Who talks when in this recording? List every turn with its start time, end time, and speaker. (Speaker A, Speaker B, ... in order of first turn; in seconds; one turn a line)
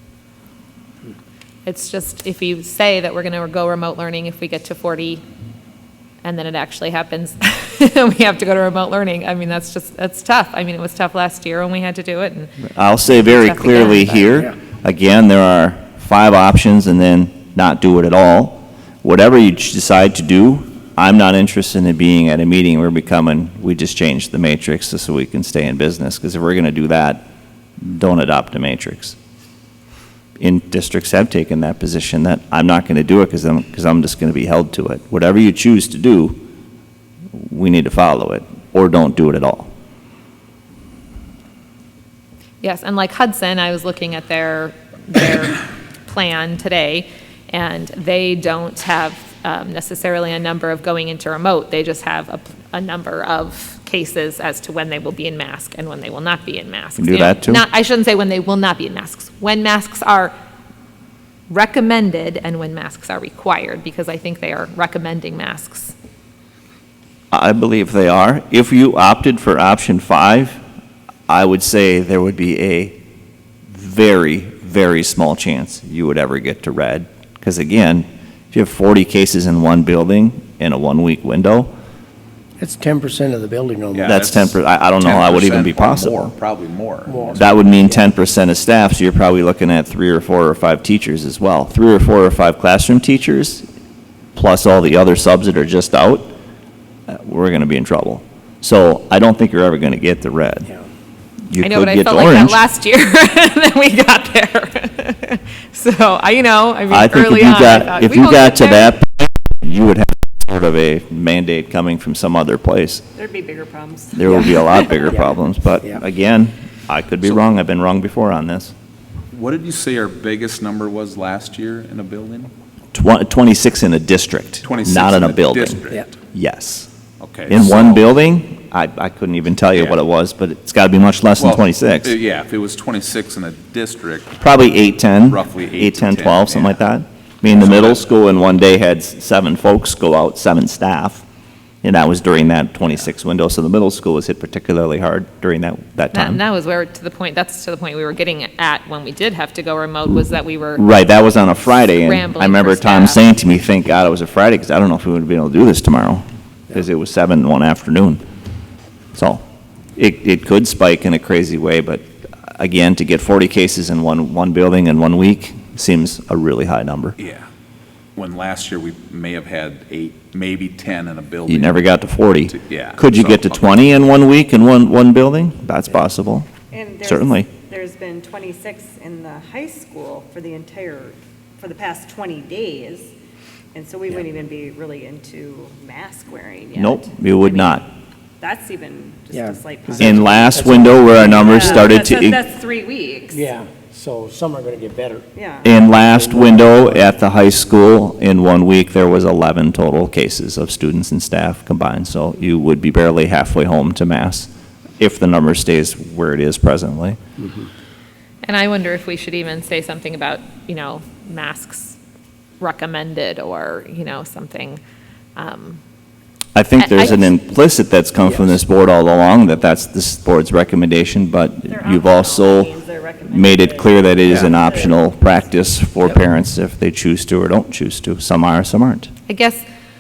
Speaker A: 1.6-5.2
Speaker A: 6.2-12.5
Speaker B: 12.7-27.3
Speaker A: 13.1-14.5
Speaker B: 27.8-29.2
Speaker B: 30.4-36.4
Speaker B: 37.3-39.7
Speaker A: 42.6-60.3
Speaker B: 57.0-57.6
Speaker A: 61.5-65.9
Speaker B: 67.3-70.6
Speaker B: 71.3-73.0
Speaker B: 73.7-81.7
Speaker C: 82.6-84.2
Speaker D: 84.0-87.4
Speaker B: 84.0-86.3
Speaker C: 87.1-88.0
Speaker B: 87.4-93.7
Speaker B: 94.3-96.3
Speaker B: 97.1-100.7
Speaker B: 101.5-102.6
Speaker A: 101.6-108.9
Speaker B: 106.9-113.0
Speaker E: 113.2-115.0
Speaker B: 114.1-118.7
Speaker C: 114.3-114.5
Speaker D: 119.3-122.5
Speaker B: 122.9-126.9
Speaker D: 124.6-126.2
Speaker D: 127.2-128.1
Speaker B: 127.5-132.1
Speaker D: 129.7-130.0
Speaker D: 131.4-134.4
Speaker B: 134.4-141.2
Speaker D: 135.1-136.8
Speaker D: 137.5-138.0
Speaker B: 141.8-146.4
Speaker A: 146.1-150.9
Speaker B: 150.8-158.2
Speaker A: 151.6-153.3
Speaker B: 159.1-159.4
Speaker B: 160.0-167.2
Speaker D: 167.2-167.5
Speaker D: 168.2-171.9
Speaker B: 171.5-176.5
Speaker D: 172.5-174.2
Speaker E: 176.7-183.1
Speaker B: 177.0-177.5
Speaker E: 183.7-187.8
Speaker B: 186.8-187.9
Speaker E: 188.4-193.4
Speaker C: 189.3-192.0
Speaker B: 190.0-192.4
Speaker C: 193.3-195.3
Speaker E: 195.3-195.7
Speaker B: 195.6-204.5
Speaker C: 195.8-197.1
Speaker B: 205.0-207.2
Speaker A: 208.5-212.0
Speaker A: 212.6-214.8
Speaker A: 215.4-215.8
Speaker B: 216.6-222.7
Speaker A: 216.8-217.2
Speaker E: 221.7-225.3
Speaker B: 223.3-229.1
Speaker A: 229.3-229.7